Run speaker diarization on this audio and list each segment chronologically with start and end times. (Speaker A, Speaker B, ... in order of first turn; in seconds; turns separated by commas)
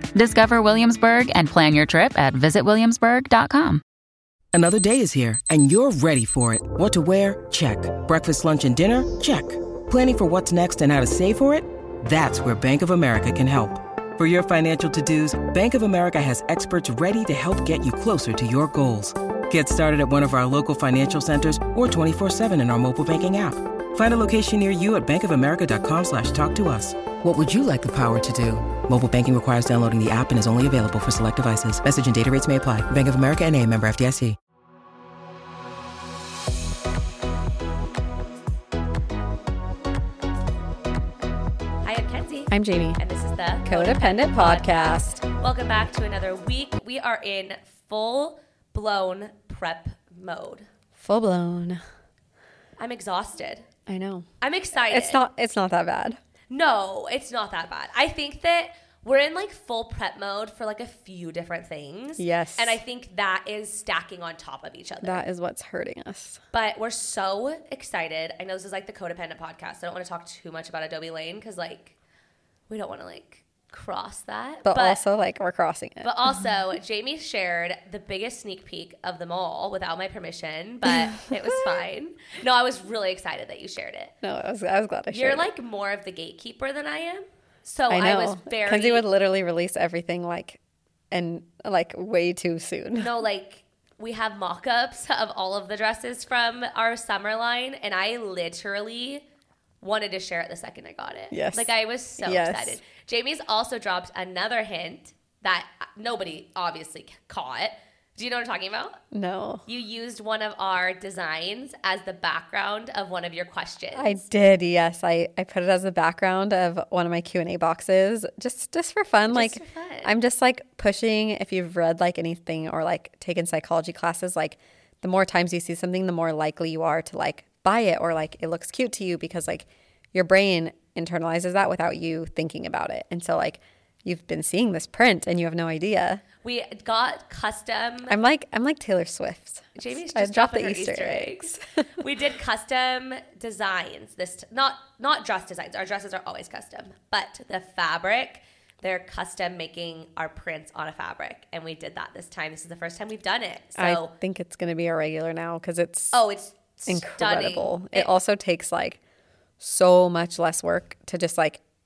Speaker A: 0.1-3.8, Speaker B: 4.5-34.4, Speaker C: 41.8-50.7, Speaker D: 42.5-43.0, Speaker D: 43.6-45.2, Speaker D: 51.0-51.8, Speaker C: 52.8-53.6, Speaker D: 53.9-56.2, Speaker C: 54.4-55.2, Speaker C: 56.5-65.2, Speaker D: 62.2-62.8, Speaker D: 65.0-66.4, Speaker C: 66.5-71.9, Speaker C: 72.7-75.0, Speaker D: 74.6-76.1, Speaker C: 76.0-84.1, Speaker D: 80.8-81.7, Speaker D: 84.2-85.5, Speaker C: 85.1-89.0, Speaker D: 87.9-90.6, Speaker D: 91.1-93.1, Speaker C: 93.0-99.2, Speaker C: 99.8-109.0, Speaker D: 101.3-102.8, Speaker D: 109.1-109.6, Speaker C: 109.7-114.2, Speaker D: 113.9-136.2, Speaker C: 119.3-120.1, Speaker C: 136.4-138.2, Speaker D: 138.1-141.6, Speaker C: 139.8-154.1, Speaker D: 153.8-156.2, Speaker C: 156.1-158.1, Speaker D: 156.9-159.0, Speaker D: 159.6-161.6